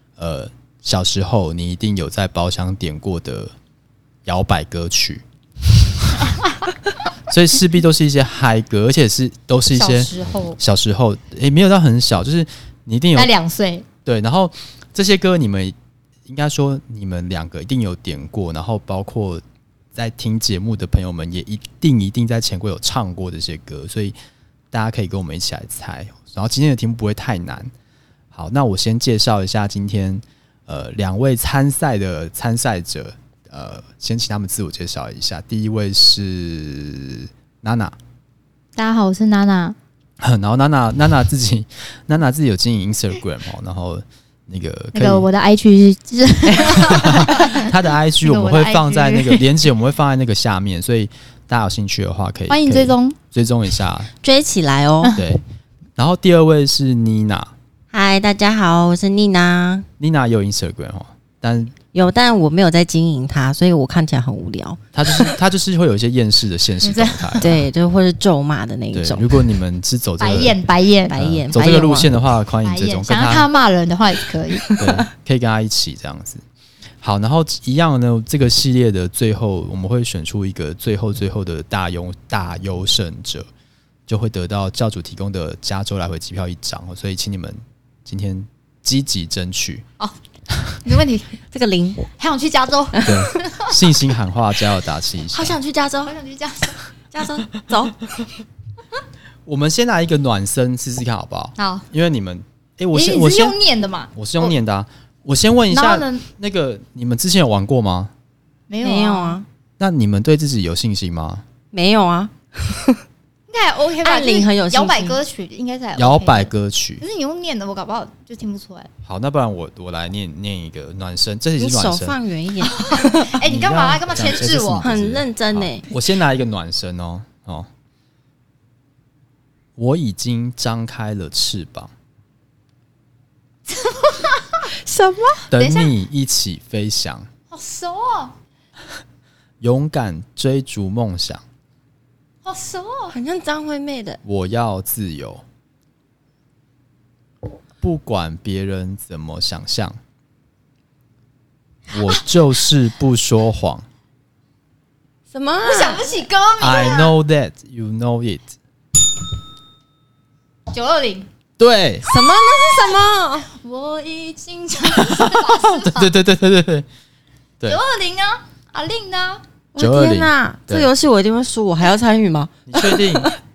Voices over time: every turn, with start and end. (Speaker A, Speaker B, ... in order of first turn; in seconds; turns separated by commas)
Speaker A: 0.2-3.5, Speaker A: 4.2-5.2, Speaker A: 7.3-13.3, Speaker B: 9.7-10.6, Speaker B: 13.1-13.8, Speaker A: 14.0-15.7, Speaker A: 16.2-19.4, Speaker A: 19.9-24.1, Speaker A: 24.7-27.7, Speaker A: 28.3-38.0, Speaker B: 38.8-39.8, Speaker A: 40.2-45.3, Speaker B: 44.9-49.5, Speaker C: 46.6-47.3, Speaker A: 46.6-54.1, Speaker B: 52.5-53.2, Speaker C: 54.2-55.2, Speaker A: 55.1-55.4, Speaker A: 56.0-57.5, Speaker C: 57.9-59.9, Speaker A: 60.0-61.7, Speaker C: 61.9-65.3, Speaker A: 64.9-67.6, Speaker B: 66.8-67.5, Speaker C: 67.4-69.5, Speaker A: 68.9-73.5, Speaker B: 70.2-71.2, Speaker C: 71.1-72.1, Speaker B: 72.6-74.7, Speaker C: 74.3-75.0, Speaker A: 74.8-76.4, Speaker A: 77.0-83.5, Speaker A: 84.1-89.8, Speaker B: 90.8-91.3, Speaker C: 91.5-92.1, Speaker B: 92.2-93.7, Speaker C: 92.9-93.3, Speaker A: 93.0-95.6, Speaker C: 95.3-96.1, Speaker B: 96.0-96.8, Speaker C: 97.1-98.2, Speaker A: 99.5-103.6, Speaker B: 101.6-101.9, Speaker B: 102.9-104.5, Speaker A: 104.1-108.1, Speaker B: 105.7-106.2, Speaker B: 108.7-109.4, Speaker C: 108.8-109.5, Speaker A: 109.8-111.4, Speaker C: 111.7-113.0, Speaker B: 113.5-118.9, Speaker C: 114.0-115.2, Speaker A: 116.0-117.0, Speaker A: 119.0-122.2, Speaker C: 121.6-123.4, Speaker B: 122.7-124.9, Speaker A: 123.4-127.7, Speaker C: 124.8-125.9, Speaker A: 129.8-131.9, Speaker B: 133.7-134.7, Speaker C: 134.7-135.5, Speaker A: 135.5-137.3, Speaker B: 135.5-135.9, Speaker B: 137.5-138.3, Speaker A: 139.6-141.4, Speaker B: 142.4-143.1, Speaker C: 143.1-144.2, Speaker A: 144.2-145.4, Speaker A: 147.8-150.0, Speaker A: 151.9-153.8, Speaker C: 155.3-156.2, Speaker B: 155.6-157.1, Speaker A: 156.6-158.5, Speaker B: 160.7-161.3, Speaker A: 161.6-162.1, Speaker C: 162.0-163.5, Speaker B: 162.5-162.9, Speaker B: 163.5-166.1, Speaker A: 165.0-166.8, Speaker B: 167.7-169.4, Speaker C: 169.7-173.4, Speaker A: 169.8-170.9, Speaker A: 172.7-173.3